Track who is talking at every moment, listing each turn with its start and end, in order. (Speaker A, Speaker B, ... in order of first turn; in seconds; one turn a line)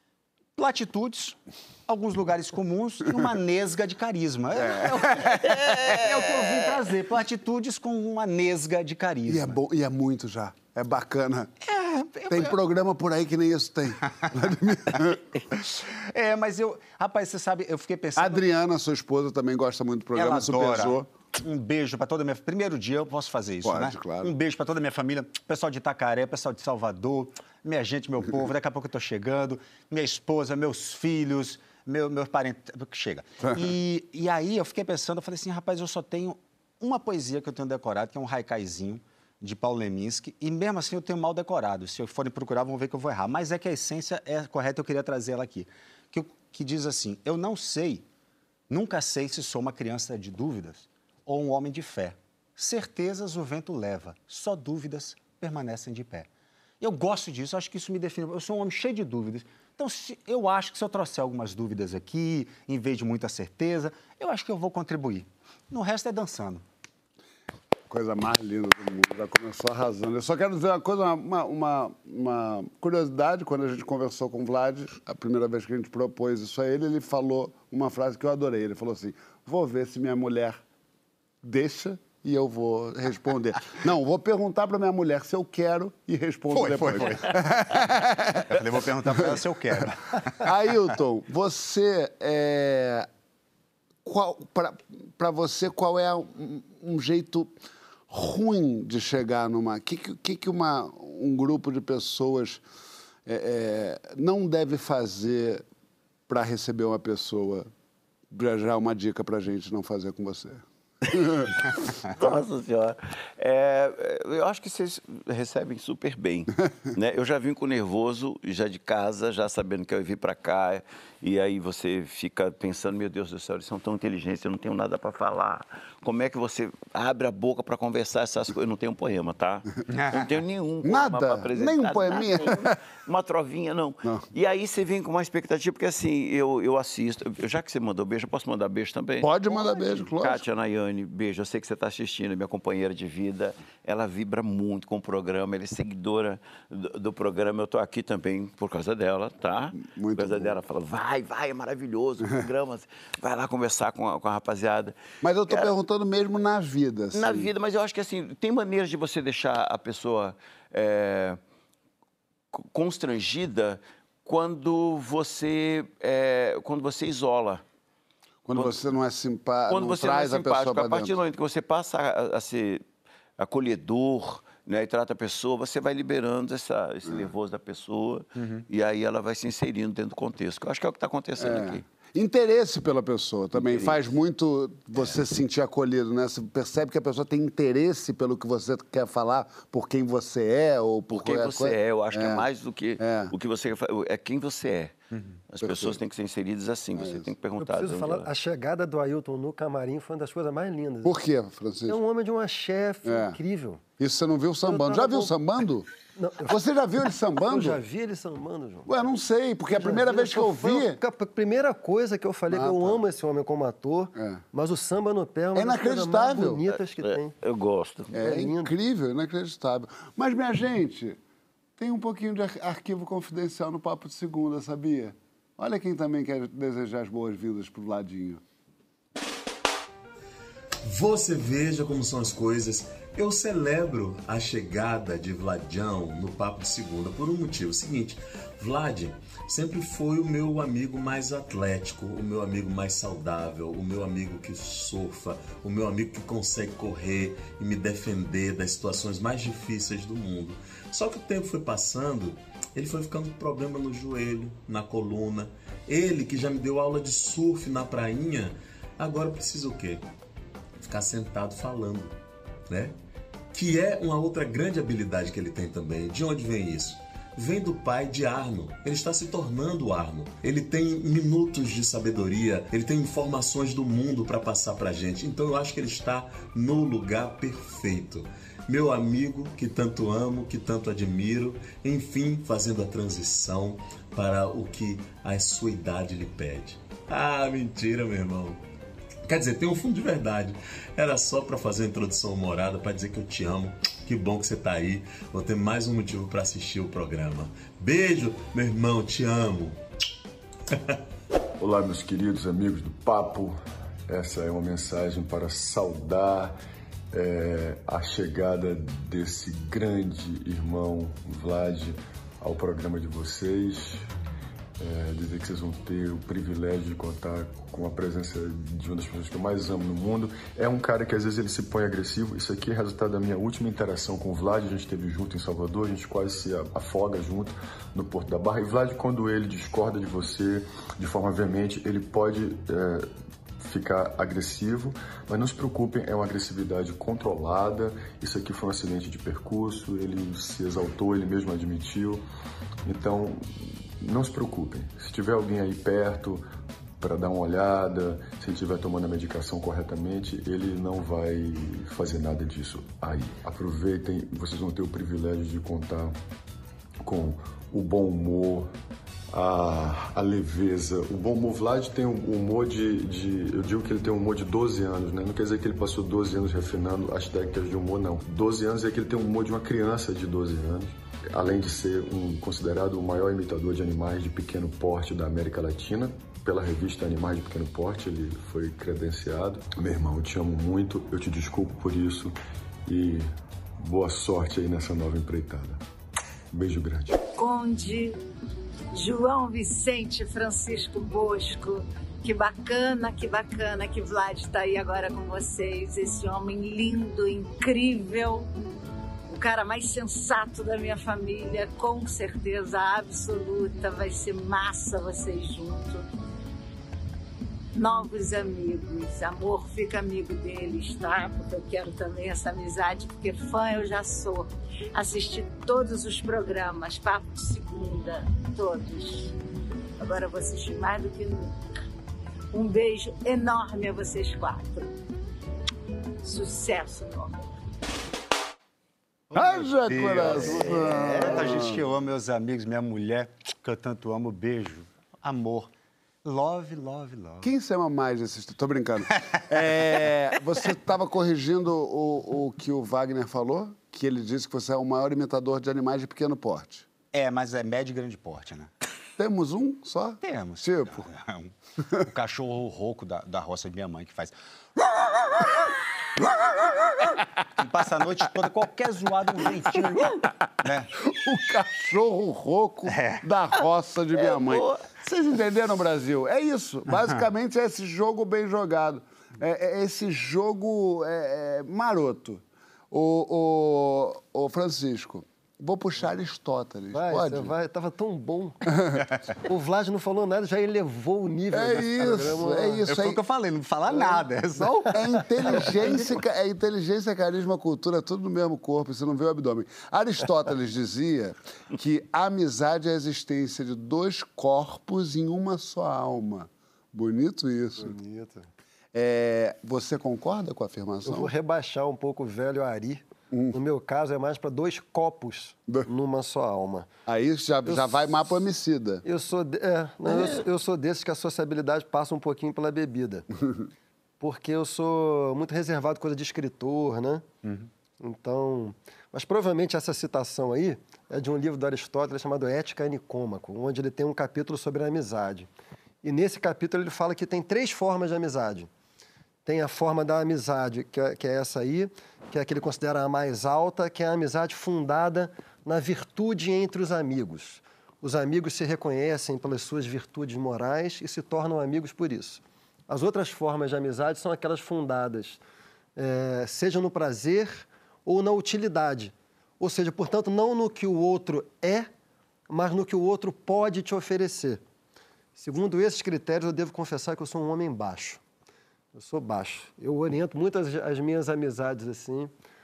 Speaker A: 0.6-9.6
Speaker B: 4.7-5.2
Speaker C: 5.5-6.0
Speaker B: 9.3-11.5
Speaker A: 11.6-12.6
Speaker B: 12.3-15.2
Speaker A: 16.1-18.4
Speaker B: 18.2-21.1
Speaker A: 20.1-48.0
Speaker B: 23.6-24.3
Speaker A: 48.7-56.3
Speaker A: 56.8-66.6
Speaker B: 67.9-80.6
Speaker B: 81.4-88.5
Speaker A: 86.5-90.5
Speaker B: 90.4-93.1
Speaker B: 94.0-97.5
Speaker B: 98.1-102.6
Speaker B: 103.2-105.6
Speaker B: 106.3-107.7
Speaker B: 108.3-111.5
Speaker C: 112.1-154.9
Speaker A: 129.9-130.2
Speaker B: 130.8-132.7
Speaker B: 139.2-140.4
Speaker B: 149.8-150.5
Speaker B: 155.2-157.5
Speaker C: 157.1-161.4
Speaker C: 162.5-167.6
Speaker B: 168.4-171.1
Speaker C: 169.7-172.8
Speaker C: 173.4-181.8
Speaker B: 181.4-192.4
Speaker C: 183.5-184.0
Speaker C: 191.1-194.9
Speaker B: 193.0-193.3
Speaker C: 195.5-198.3
Speaker B: 195.6-196.0
Speaker B: 196.9-197.3
Speaker D: 197.6-201.2
Speaker B: 201.0-202.0
Speaker D: 201.9-203.8
Speaker B: 203.0-203.4
Speaker B: 204.0-205.9
Speaker D: 204.6-205.3
Speaker D: 206.2-206.6
Speaker B: 206.5-207.8
Speaker D: 207.4-208.9
Speaker B: 208.8-211.0
Speaker D: 209.7-217.3
Speaker B: 212.5-213.0
Speaker B: 214.2-214.4
Speaker B: 215.5-216.6
Speaker C: 216.7-218.1
Speaker B: 218.1-221.2
Speaker D: 218.2-218.7
Speaker B: 221.8-228.4
Speaker E: 230.8-260.0
Speaker E: 260.8-262.1
Speaker E: 262.7-262.9
Speaker E: 263.5-288.6
Speaker E: 289.3-299.8
Speaker F: 301.6-306.6
Speaker F: 307.1-314.1
Speaker F: 314.8-342.2
Speaker F: 342.8-346.4
Speaker F: 347.0-356.2
Speaker F: 357.0-358.7
Speaker F: 359.3-385.8
Speaker F: 386.5-387.2
Speaker G: 387.4-388.2
Speaker G: 388.9-398.5
Speaker G: 399.3-406.1
Speaker G: 407.7-419.3
Speaker G: 420.0-421.5
Speaker G: 422.5-424.9
Speaker G: 426.2-427.5
Speaker A: 429.3-435.7
Speaker B: 429.3-431.8
Speaker C: 430.2-431.6
Speaker A: 436.2-437.5
Speaker B: 437.4-446.9
Speaker A: 447.1-448.7
Speaker B: 449.2-451.0
Speaker A: 450.2-455.6
Speaker A: 457.6-460.9
Speaker B: 461.1-477.5
Speaker A: 462.9-463.2
Speaker C: 464.1-465.0
Speaker D: 476.9-478.6
Speaker B: 478.7-479.0
Speaker D: 479.4-482.9
Speaker B: 481.5-483.2
Speaker A: 482.9-485.6
Speaker B: 484.6-497.9
Speaker D: 485.6-486.1
Speaker D: 497.8-498.5
Speaker B: 498.9-501.3
Speaker D: 501.0-506.9
Speaker B: 507.1-509.0
Speaker D: 507.6-508.2
Speaker D: 509.0-513.2
Speaker C: 510.0-510.4
Speaker D: 514.2-517.2
Speaker D: 518.0-525.5
Speaker D: 526.0-528.7
Speaker D: 529.4-545.4
Speaker D: 546.0-551.9
Speaker D: 552.5-554.6
Speaker D: 555.4-558.2
Speaker D: 558.9-562.3